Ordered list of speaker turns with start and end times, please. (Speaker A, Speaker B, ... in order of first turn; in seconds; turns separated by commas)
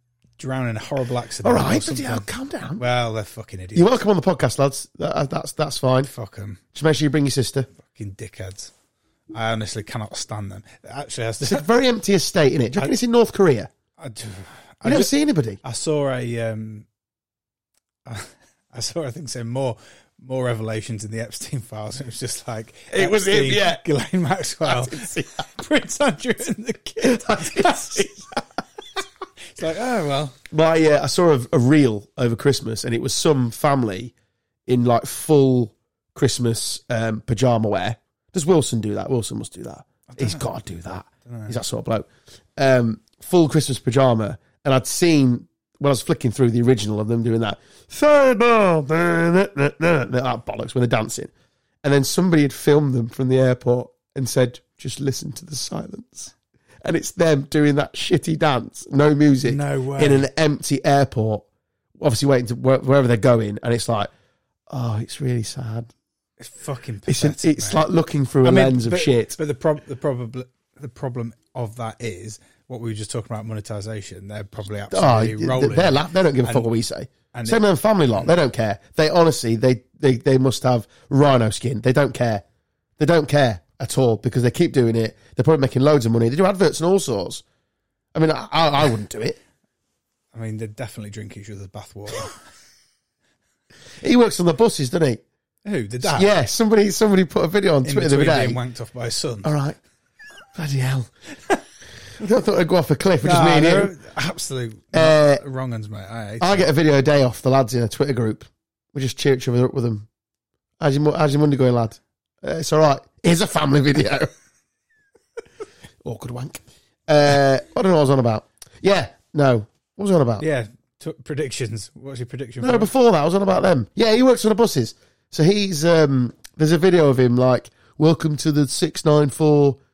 Speaker A: 0.4-2.3, Speaker B: 1.4-2.8, Speaker A: 2.8-4.0, Speaker B: 3.7-6.1, Speaker A: 6.1-6.6, Speaker B: 6.7-7.7, Speaker A: 7.8-8.7, Speaker A: 9.3-11.7, Speaker B: 11.4-13.7, Speaker A: 14.0-15.1, Speaker B: 14.8-15.6, Speaker A: 15.6-16.9, Speaker A: 18.1-28.2, Speaker B: 22.9-23.8, Speaker B: 24.6-25.4, Speaker B: 27.0-28.4, Speaker A: 29.4-30.4, Speaker B: 30.5-34.1, Speaker B: 34.7-51.3, Speaker A: 40.1-40.4, Speaker A: 41.3-41.5, Speaker B: 51.8-61.5, Speaker A: 59.4-60.3, Speaker B: 62.0-64.1, Speaker B: 64.7-65.9, Speaker A: 66.4-67.9, Speaker B: 67.1-69.3, Speaker A: 68.4-76.7, Speaker B: 74.9-82.4, Speaker A: 77.3-77.6, Speaker B: 83.0-87.4, Speaker B: 88.1-89.4, Speaker A: 90.3-92.4, Speaker B: 94.0-95.2, Speaker A: 95.6-96.3, Speaker B: 96.0-98.6, Speaker A: 97.8-99.5, Speaker B: 99.4-99.8, Speaker B: 100.5-101.1, Speaker B: 102.2-103.9, Speaker A: 103.2-106.7, Speaker B: 104.9-105.4, Speaker B: 106.4-110.1, Speaker B: 110.8-114.3, Speaker B: 116.0-120.4, Speaker A: 120.4-122.9, Speaker B: 122.6-129.8